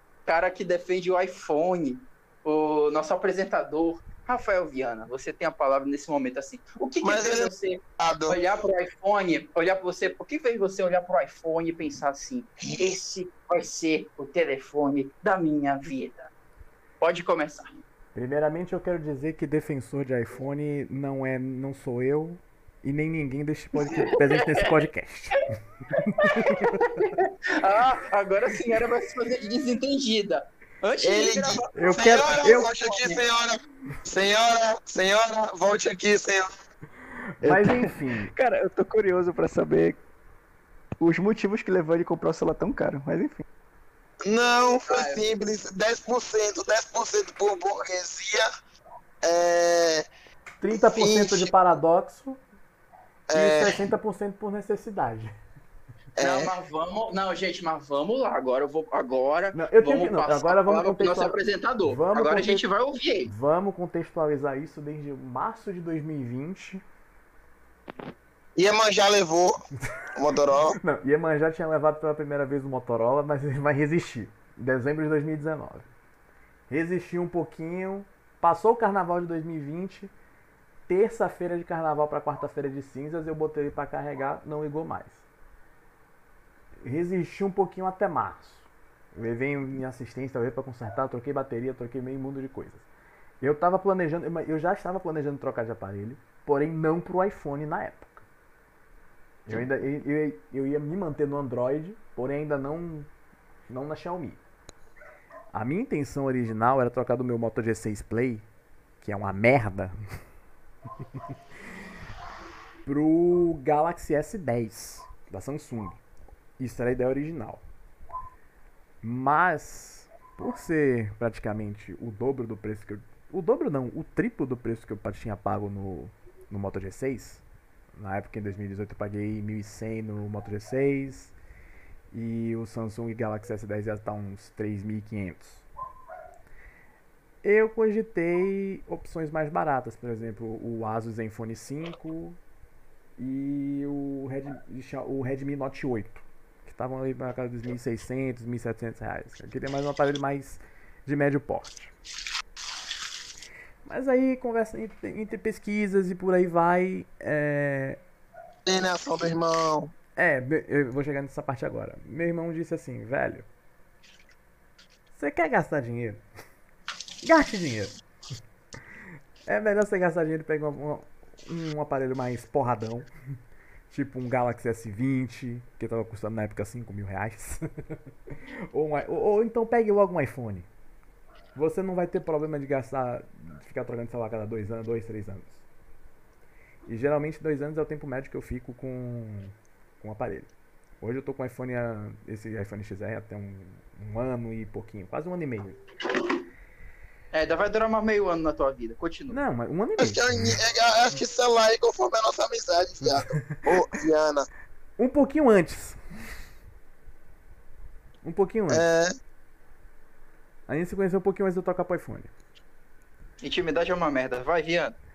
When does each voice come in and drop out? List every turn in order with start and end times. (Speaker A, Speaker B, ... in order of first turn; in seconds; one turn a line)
Speaker A: 0.2-16.3
Speaker B: 7.0-8.4
Speaker A: 17.0-17.7
Speaker C: 18.1-25.5
Speaker A: 23.8-24.7
Speaker A: 26.0-32.6
Speaker C: 26.1-26.8
Speaker B: 31.0-36.6
Speaker C: 31.7-33.0
Speaker C: 37.4-38.3
Speaker D: 37.4-40.0
Speaker D: 41.0-43.4
Speaker B: 44.2-48.5
Speaker A: 44.9-45.2
Speaker B: 49.2-50.0
Speaker C: 50.6-52.4
Speaker B: 50.7-51.5
Speaker B: 53.3-53.8
Speaker C: 53.3-55.3
Speaker B: 56.2-56.5
Speaker A: 56.2-63.3
Speaker C: 59.5-62.7
Speaker C: 63.3-66.8
Speaker B: 68.5-69.5
Speaker B: 70.2-70.8
Speaker C: 70.8-75.9
Speaker C: 76.7-80.1
Speaker C: 80.9-85.2
Speaker C: 86.8-92.8
Speaker C: 93.4-98.2
Speaker C: 99.5-103.1
Speaker C: 103.7-104.4
Speaker C: 105.5-108.5
Speaker C: 109.0-110.0
Speaker C: 112.8-116.0
Speaker C: 116.6-117.6
Speaker C: 119.0-127.4
Speaker C: 127.9-131.3
Speaker C: 132.1-135.6
Speaker C: 137.4-142.4
Speaker C: 143.2-151.9
Speaker C: 153.8-158.0
Speaker B: 158.7-159.9
Speaker C: 160.2-163.4
Speaker C: 165.1-166.2
Speaker C: 167.2-167.9
Speaker C: 169.4-173.1
Speaker C: 173.9-180.7
Speaker C: 181.5-185.6
Speaker C: 186.8-195.8
Speaker A: 197.3-199.4
Speaker C: 199.3-200.6
Speaker B: 200.0-204.4
Speaker C: 203.0-203.8
Speaker C: 205.0-206.0
Speaker C: 208.2-208.9
Speaker B: 208.7-209.1
Speaker C: 210.7-212.3
Speaker A: 213.4-214.9